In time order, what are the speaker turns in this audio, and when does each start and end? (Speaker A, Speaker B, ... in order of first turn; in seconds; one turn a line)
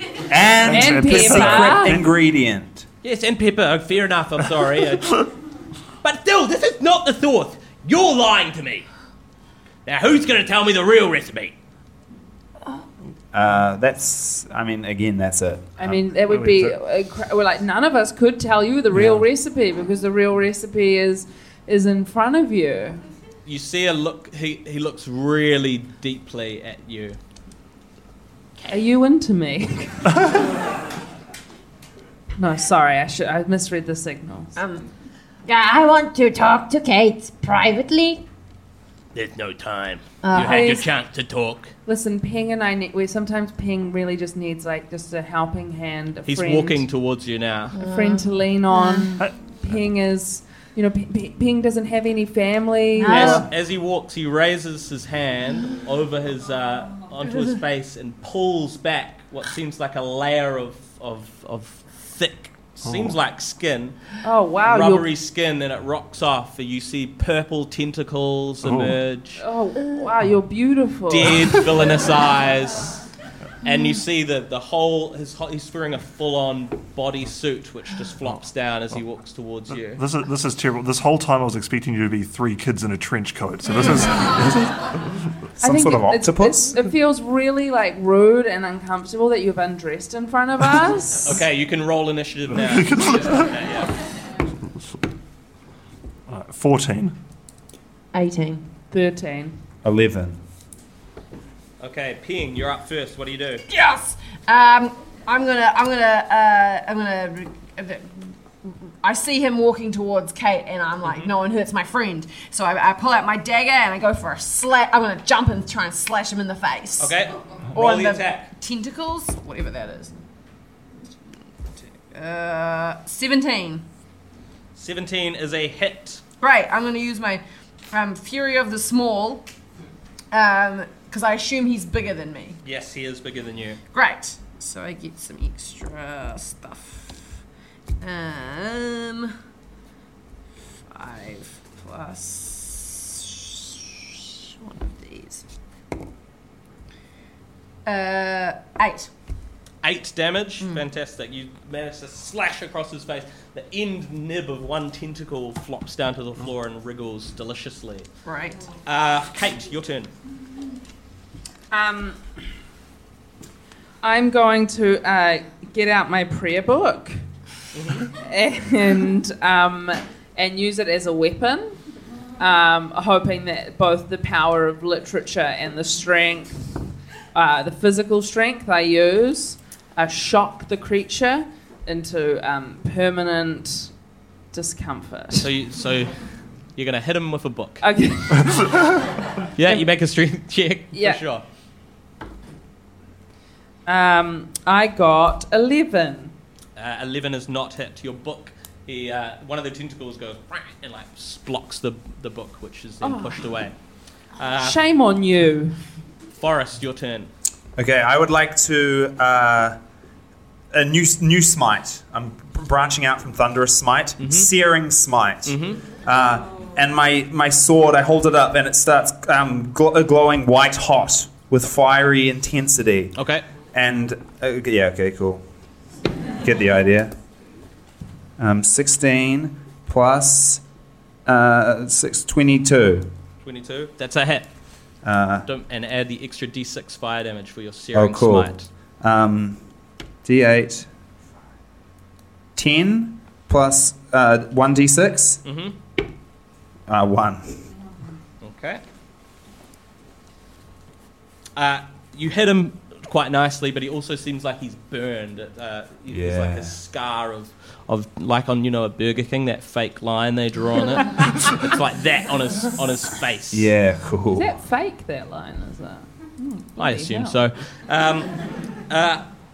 Speaker A: 0.3-2.9
Speaker B: 0.6-2.0
Speaker C: 0.7-2.0
Speaker D: 3.0-5.2
Speaker D: 6.0-8.9
Speaker D: 9.8-11.6
Speaker A: 13.3-15.7
Speaker C: 15.8-23.0
Speaker B: 15.8-16.7
Speaker B: 18.9-19.2
Speaker D: 23.4-27.2
Speaker C: 28.7-30.3
Speaker C: 32.4-34.5
Speaker E: 34.6-34.9
Speaker F: 35.5-38.2
Speaker D: 39.1-41.7
Speaker E: 40.2-40.7
Speaker C: 40.4-40.8
Speaker C: 41.9-46.9
Speaker D: 46.3-47.8
Speaker E: 47.8-49.1
Speaker C: 47.8-53.5
Speaker F: 53.0-53.5
Speaker E: 53.1-53.3
Speaker D: 53.1-64.0
Speaker B: 62.8-63.2
Speaker C: 64.2-65.1
Speaker D: 64.7-69.4
Speaker B: 68.6-69.0
Speaker C: 69.4-71.7
Speaker D: 71.1-73.0
Speaker D: 73.6-80.0
Speaker B: 79.9-84.8
Speaker A: 85.6-86.7
Speaker C: 85.6-91.4
Speaker D: 91.2-93.9
Speaker B: 92.7-93.5
Speaker B: 96.3-97.2
Speaker E: 98.1-98.6
Speaker C: 98.9-99.6
Speaker A: 99.8-100.4
Speaker D: 101.8-103.7
Speaker E: 103.7-117.2
Speaker D: 111.0-111.3
Speaker D: 117.0-118.5
Speaker E: 117.8-120.1
Speaker E: 122.1-123.8
Speaker D: 124.8-126.2
Speaker E: 126.4-129.5
Speaker E: 130.3-132.6
Speaker D: 132.6-133.8
Speaker E: 133.9-137.3
Speaker E: 138.0-139.3
Speaker E: 140.9-145.4
Speaker E: 147.9-149.1
Speaker D: 149.8-158.1
Speaker E: 158.3-158.6
Speaker D: 158.9-160.1
Speaker C: 161.7-162.2
Speaker C: 164.0-167.2
Speaker D: 167.7-168.1
Speaker C: 168.1-171.8
Speaker C: 172.4-176.6
Speaker C: 177.3-183.9
Speaker C: 184.5-185.5
Speaker D: 185.4-187.8
Speaker C: 187.8-188.8
Speaker D: 189.6-191.4
Speaker C: 190.9-191.2
Speaker C: 193.9-196.3
Speaker D: 196.8-203.7
Speaker C: 203.0-203.4
Speaker D: 204.4-204.8
Speaker C: 204.6-205.8
Speaker D: 206.4-207.3
Speaker A: 207.8-209.8
Speaker A: 210.7-223.2
Speaker D: 214.2-214.5
Speaker D: 215.5-215.8
Speaker D: 223.2-223.4
Speaker A: 223.7-225.4
Speaker A: 226.4-227.1
Speaker A: 228.4-230.6
Speaker A: 231.3-233.1
Speaker D: 233.4-234.5
Speaker A: 235.0-235.5
Speaker D: 235.5-238.7
Speaker A: 237.9-239.6
Speaker A: 240.2-240.9
Speaker A: 242.6-245.4
Speaker D: 245.4-245.8
Speaker A: 246.9-247.6
Speaker D: 248.4-248.8
Speaker D: 251.6-263.7
Speaker A: 256.1-256.8
Speaker A: 263.5-264.6
Speaker C: 264.3-267.4
Speaker D: 266.8-268.4
Speaker D: 268.9-269.3